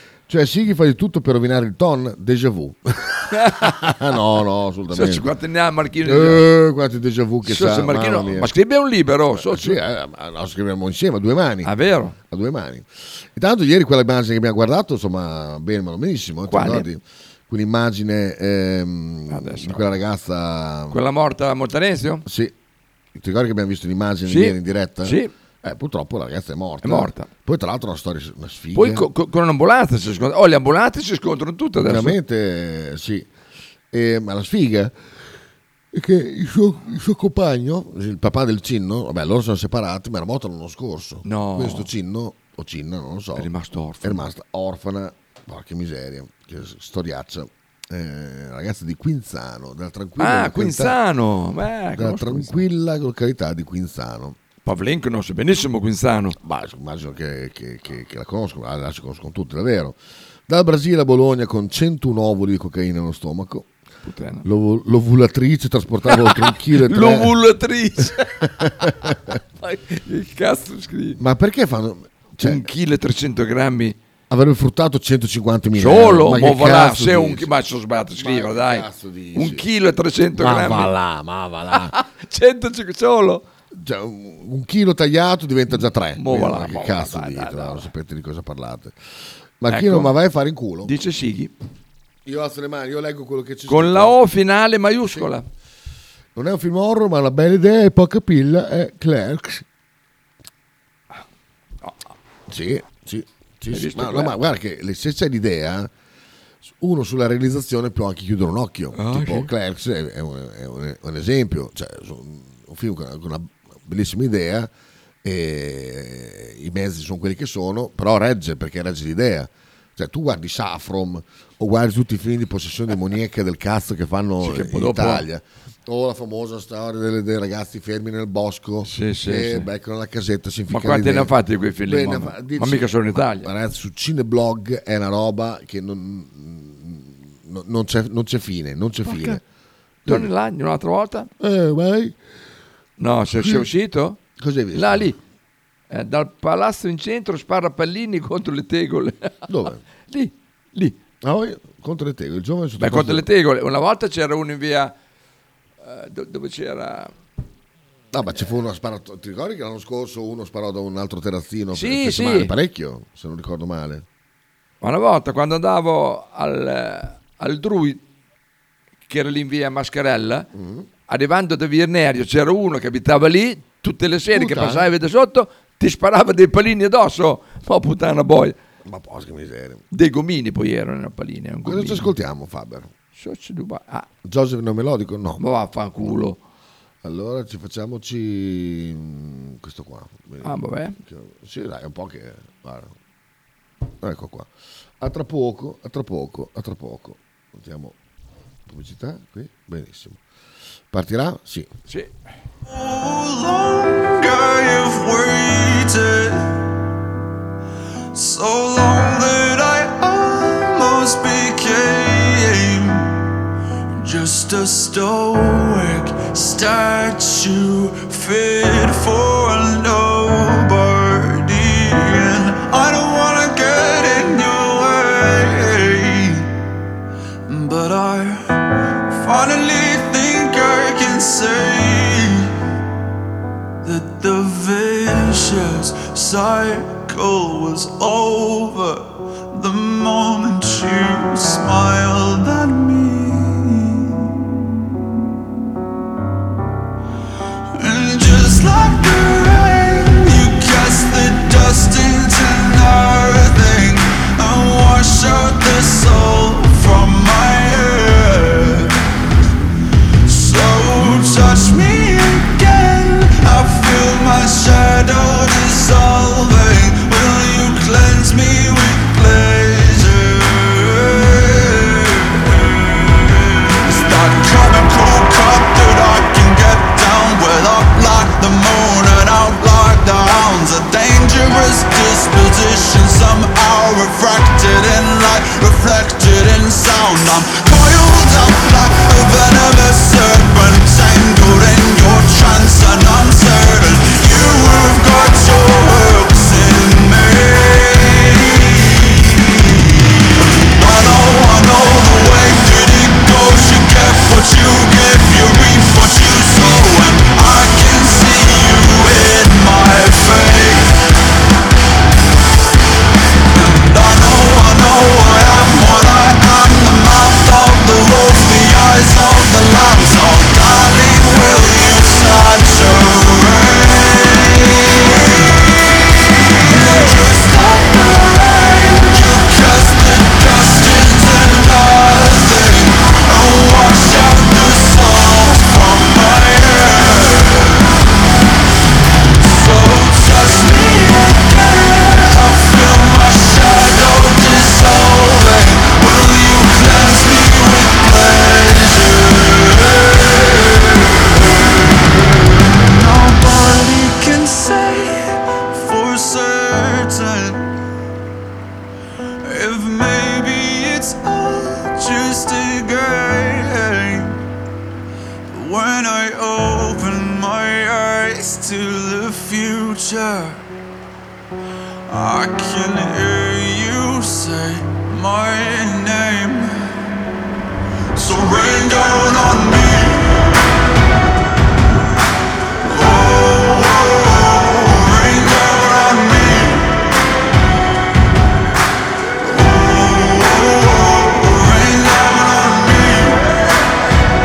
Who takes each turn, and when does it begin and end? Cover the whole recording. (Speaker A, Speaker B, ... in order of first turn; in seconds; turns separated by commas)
Speaker A: 0.3-5.3, Speaker B: 3.3-3.8, Speaker B: 4.9-6.5, Speaker A: 6.0-8.5, Speaker B: 7.5-9.8, Speaker A: 9.3-11.7, Speaker B: 11.6-12.2, Speaker A: 12.3-21.0, Speaker B: 16.5-16.9, Speaker B: 19.3-19.9, Speaker B: 20.9-22.2, Speaker A: 22.2-22.5, Speaker A: 23.1-29.1, Speaker B: 24.3-25.3, Speaker B: 26.8-27.3, Speaker B: 28.8-32.2, Speaker A: 31.8-33.3, Speaker A: 33.9-35.0, Speaker A: 35.9-43.5, Speaker B: 41.2-41.9, Speaker B: 43.4-44.2, Speaker A: 44.0-51.0, Speaker B: 50.2-52.6, Speaker A: 52.0-54.4, Speaker B: 54.6-56.4, Speaker A: 56.4-63.7, Speaker B: 64.0-64.5, Speaker A: 64.5-67.3, Speaker B: 66.1-71.2, Speaker A: 68.6-69.3, Speaker A: 71.2-72.7, Speaker B: 72.4-74.0, Speaker A: 74.3-77.5, Speaker B: 75.8-80.9, Speaker A: 78.2-79.7, Speaker A: 80.4-82.0, Speaker B: 81.7-83.5, Speaker A: 83.7-89.0, Speaker B: 85.7-87.9, Speaker A: 89.6-90.9, Speaker B: 89.7-90.2, Speaker B: 90.8-91.5, Speaker A: 92.2-94.2, Speaker B: 93.7-95.5, Speaker A: 95.1-95.3, Speaker A: 96.3-99.7, Speaker A: 102.5-105.9, Speaker B: 103.7-104.3, Speaker A: 106.6-114.7, Speaker B: 108.9-109.5, Speaker A: 115.2-139.4, Speaker B: 124.4-125.3, Speaker B: 128.8-129.7, Speaker B: 130.7-133.5, Speaker B: 139.1-139.4, Speaker A: 140.1-140.3, Speaker B: 140.1-141.3, Speaker A: 141.4-142.2, Speaker B: 143.0-144.2, Speaker A: 143.3-143.7, Speaker A: 144.4-145.1, Speaker B: 144.7-145.2, Speaker B: 145.9-149.4, Speaker A: 149.5-149.8, Speaker B: 150.1-151.0, Speaker A: 151.2-153.3, Speaker B: 152.8-154.9, Speaker B: 155.8-157.1, Speaker A: 158.1-164.1, Speaker B: 161.7-162.5, Speaker B: 164.8-168.0, Speaker B: 169.1-170.5, Speaker A: 170.5-170.9, Speaker B: 171.1-178.6, Speaker A: 174.3-174.9, Speaker A: 178.8-179.8, Speaker B: 179.9-182.1, Speaker A: 181.7-182.9, Speaker B: 183.2-184.1, Speaker A: 184.2-185.4, Speaker B: 185.4-186.4, Speaker A: 187.0-192.9, Speaker B: 190.4-191.0, Speaker A: 194.0-194.5, Speaker A: 195.0-198.0, Speaker A: 198.7-200.2, Speaker A: 200.9-201.7, Speaker C: 202.7-206.6, Speaker C: 208.1-213.1, Speaker C: 213.9-226.5, Speaker C: 227.5-228.5, Speaker C: 229.1-232.5, Speaker C: 233.8-244.3, Speaker C: 247.7-258.9, Speaker C: 260.3-311.0, Speaker C: 313.5-337.9, Speaker C: 339.4-357.7, Speaker C: 359.4-364.4, Speaker C: 365.5-370.6, Speaker C: 372.1-376.8, Speaker C: 378.2-380.5, Speaker C: 382.9-387.1, Speaker C: 389.4-393.6